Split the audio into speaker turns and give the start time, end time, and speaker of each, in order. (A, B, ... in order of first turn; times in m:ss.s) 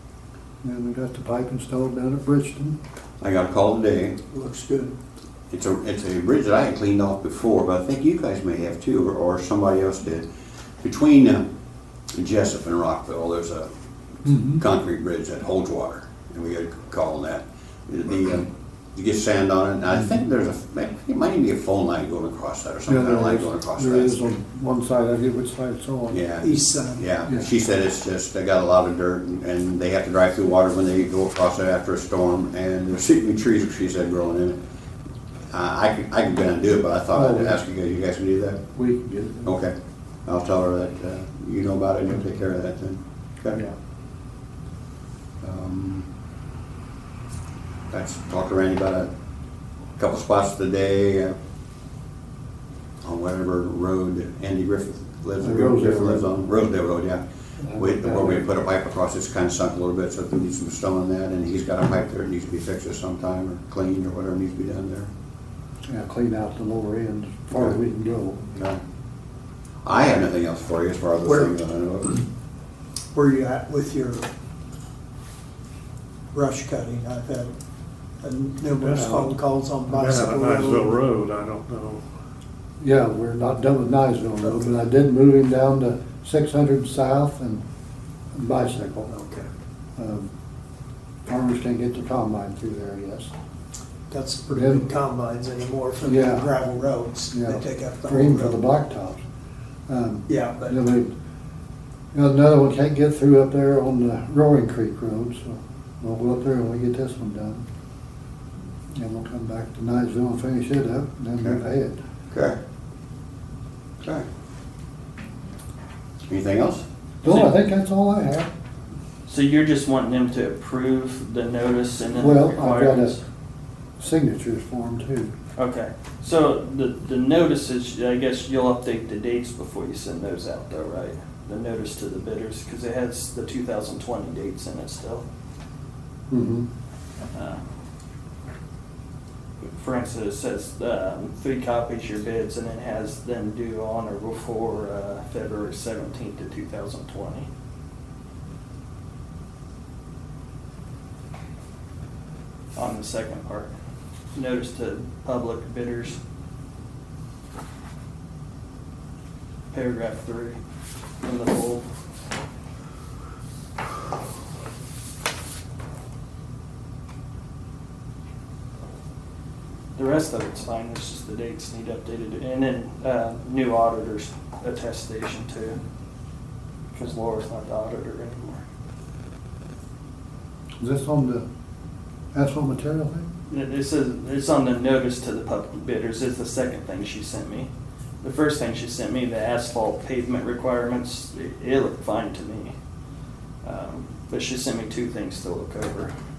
0:00.6-0:02.8 A
0:03.2-0:04.2 B
0:04.3-0:04.9 C
0:05.5-0:10.2 B
0:10.8-0:11.4 B
0:12.1-0:13.7 B
0:14.2-0:14.6 A
0:14.4-0:24.2 B
0:22.9-0:26.2 A
0:26.1-0:34.6 B
0:26.4-0:27.0 C
0:35.5-0:38.6 B
0:37.1-0:37.6 A
0:38.7-0:39.5 A
0:39.4-0:43.6 B
0:45.4-0:46.1 B
0:47.9-0:49.1 B
0:50.0-0:51.3 B
0:53.0-0:57.2 B
0:55.4-0:56.3 A
0:57.6-0:58.4 A
0:57.8-1:05.1 B
1:05.9-1:08.5 A
1:08.5-1:08.8 B
1:09.8-1:12.2 B
1:11.2-1:11.5 C
1:13.1-1:14.3 C
1:16.3-1:17.5 C
1:18.2-1:21.1 C
1:19.9-1:21.9 D
1:22.8-1:27.6 A
1:28.3-1:29.1 A
1:29.1-1:29.4 C
1:30.0-1:30.3 A
1:31.3-1:33.3 A
1:34.1-1:38.7 C
1:34.5-1:34.8 A
1:36.0-1:36.5 A
1:37.3-1:39.2 A
1:39.9-1:41.1 A
1:40.3-1:40.7 C
1:42.1-1:47.6 A
1:48.9-1:52.0 A
1:52.3-1:52.6 B
1:56.3-1:56.8 B
1:57.2-1:58.5 A
1:57.2-1:57.5 E
1:59.2-2:03.2 E
2:02.2-2:03.2 A
2:04.0-2:05.3 A
2:05.6-2:15.2 E
2:16.3-2:16.7 A
2:17.3-2:17.6 E
2:19.7-2:27.5 E
2:32.7-2:33.7 E
2:34.3-2:36.2 E
2:39.7-2:40.6 E
2:41.2-2:41.9 E
2:49.9-2:55.8 E
2:56.9-2:58.6 E
3:00.8-3:01.4 A
3:02.3-3:03.3 A
3:03.5-3:07.7 E
3:08.2-3:12.7 E
3:13.6-3:16.1 E